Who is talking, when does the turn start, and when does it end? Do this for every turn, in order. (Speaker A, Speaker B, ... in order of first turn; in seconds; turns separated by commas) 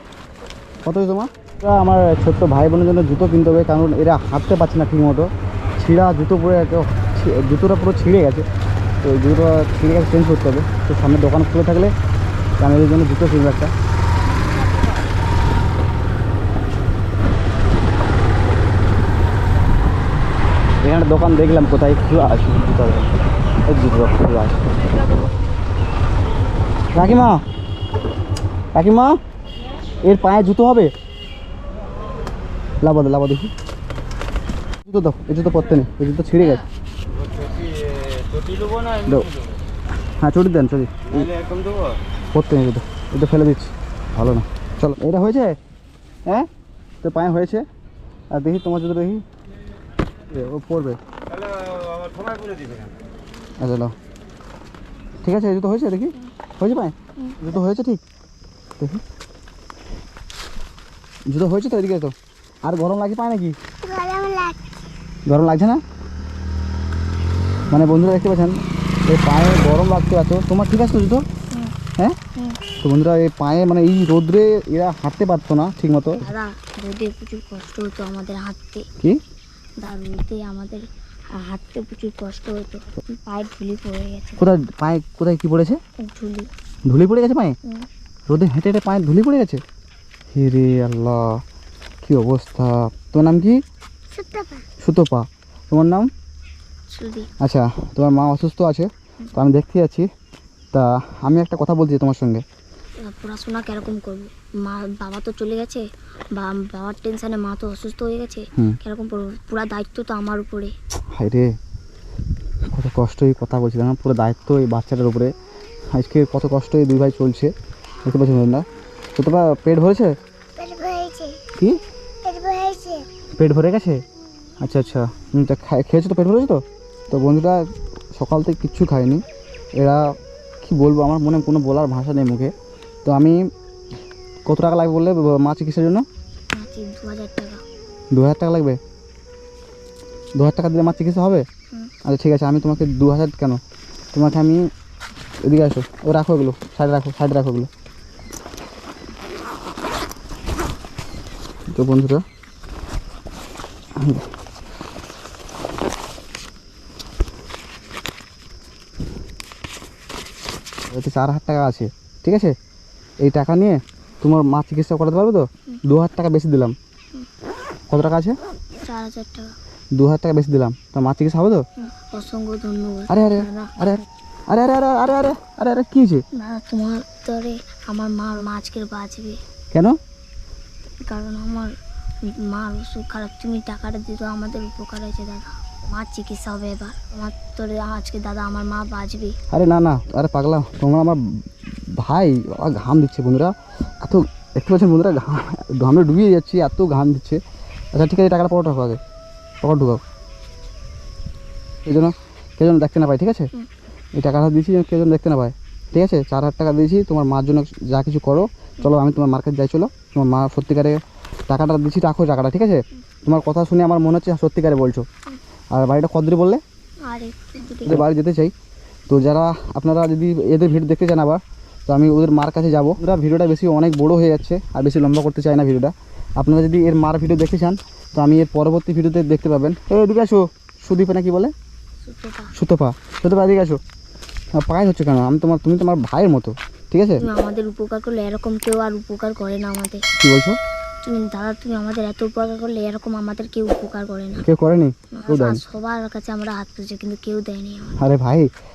Speaker A: 0.8-8.5, Speaker A: 9.0-11.9, Speaker A: 12.6-13.7, Speaker A: 20.8-23.1, Speaker A: 23.6-24.6, Speaker A: 26.9-27.4, Speaker A: 28.7-29.2, Speaker A: 30.0-30.9, Speaker A: 32.8-33.5, Speaker A: 34.9-36.6, Speaker A: 38.9-39.3, Speaker A: 40.2-41.4, Speaker A: 42.3-45.6, Speaker A: 47.0-47.6, Speaker A: 48.3-49.2, Speaker A: 50.3-51.0, Speaker A: 53.6-53.9, Speaker A: 55.2-58.0, Speaker A: 61.3-62.1, Speaker A: 62.6-63.5, Speaker B: 63.8-64.6, Speaker A: 65.3-65.8, Speaker A: 67.7-71.2, Speaker C: 72.3-72.6, Speaker A: 72.8-76.2, Speaker C: 76.2-78.9, Speaker C: 79.8-84.4, Speaker A: 84.4-85.8, Speaker C: 86.0-86.5, Speaker A: 86.8-87.5, Speaker A: 88.3-89.6, Speaker A: 90.3-91.4, Speaker A: 92.0-93.6, Speaker B: 94.1-94.7, Speaker A: 94.8-96.1, Speaker C: 96.9-97.3, Speaker A: 97.4-100.1, Speaker A: 100.7-102.4, Speaker C: 103.0-110.8, Speaker A: 111.1-111.5, Speaker A: 112.7-115.3, Speaker A: 115.9-117.5, Speaker A: 118.0-120.1, Speaker B: 120.6-121.4, Speaker B: 122.2-123.0, Speaker A: 123.4-124.0, Speaker A: 124.6-129.2, Speaker A: 129.8-132.5, Speaker A: 133.0-133.4, Speaker A: 134.4-136.0, Speaker C: 136.5-137.6, Speaker A: 138.1-138.8, Speaker A: 140.4-141.4, Speaker A: 142.0-143.6, Speaker A: 144.1-144.7, Speaker A: 145.4-147.7, Speaker A: 151.7-152.2, Speaker A: 154.0-154.2, Speaker A: 160.9-162.6, Speaker A: 163.2-166.8, Speaker A: 167.9-168.4, Speaker C: 168.8-169.6, Speaker A: 169.9-171.6, Speaker C: 171.8-173.8, Speaker A: 173.1-176.2, Speaker C: 176.3-179.4, Speaker A: 179.7-180.0, Speaker C: 181.0-189.4, Speaker A: 189.5-197.4, Speaker A: 197.9-199.0, Speaker A: 199.6-200.0, Speaker A: 201.8-203.5, Speaker A: 204.2-215.1, Speaker A: 215.7-216.6, Speaker C: 217.0-218.0, Speaker A: 217.8-218.5, Speaker A: 219.1-231.5, Speaker C: 232.0-232.5, Speaker A: 232.5-233.8, Speaker A: 234.6-237.3, Speaker C: 237.2-240.1, Speaker A: 240.2-240.6, Speaker C: 241.0-244.5, Speaker A: 244.4-245.6, Speaker C: 245.1-248.0, Speaker A: 248.0-248.5